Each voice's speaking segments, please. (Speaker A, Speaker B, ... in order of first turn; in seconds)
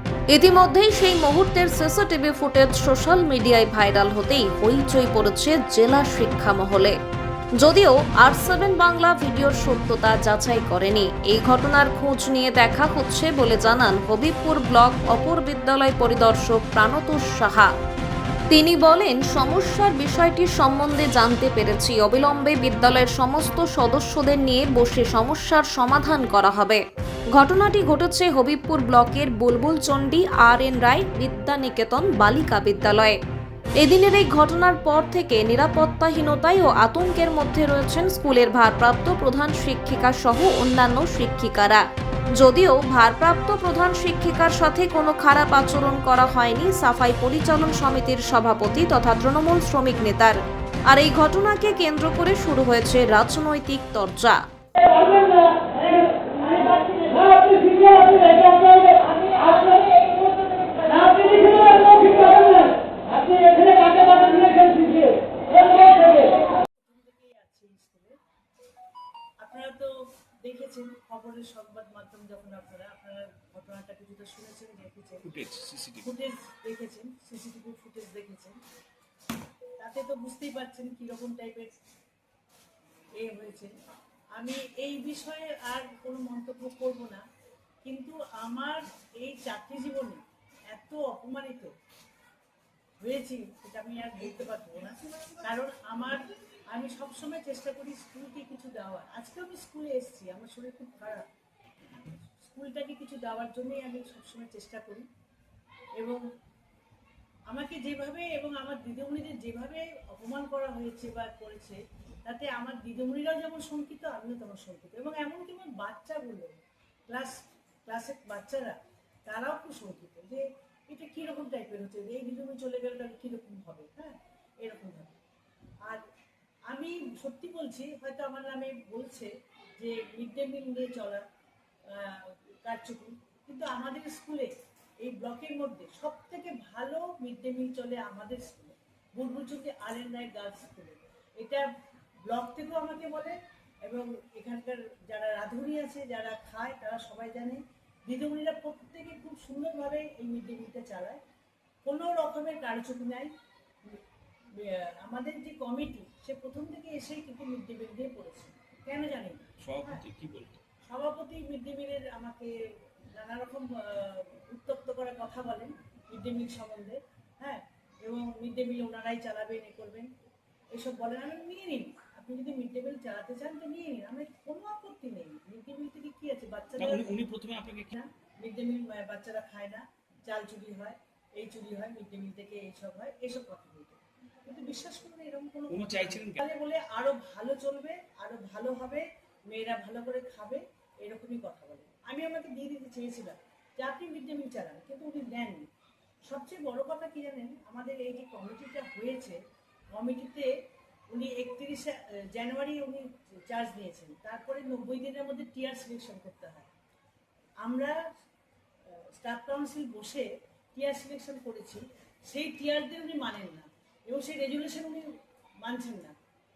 Speaker A: 0.3-7.0, 7.6-17.7, 18.5-26.8, 27.3-33.2, 33.8-54.5
Speaker B: 60.8-68.2, 69.4-75.3, 76.0-78.6, 79.8-81.8, 83.2-83.8, 84.4-87.2, 87.8-91.8, 93.0-101.3, 102.4-105.1, 106.0-106.2, 107.5-116.5, 117.1-125.2, 126.7-131.2, 131.8-141.7, 142.3-151.2, 151.8-153.3, 154.6-160.1, 160.9-170.1, 170.7-177.4, 177.9-195.7, 196.3-199.4, 199.9-200.5, 201.1-206.7, 207.6-208.0, 209.0-216.2
Speaker C: 75.2-76.1, 159.6-160.6, 176.8-177.9, 185.7-186.4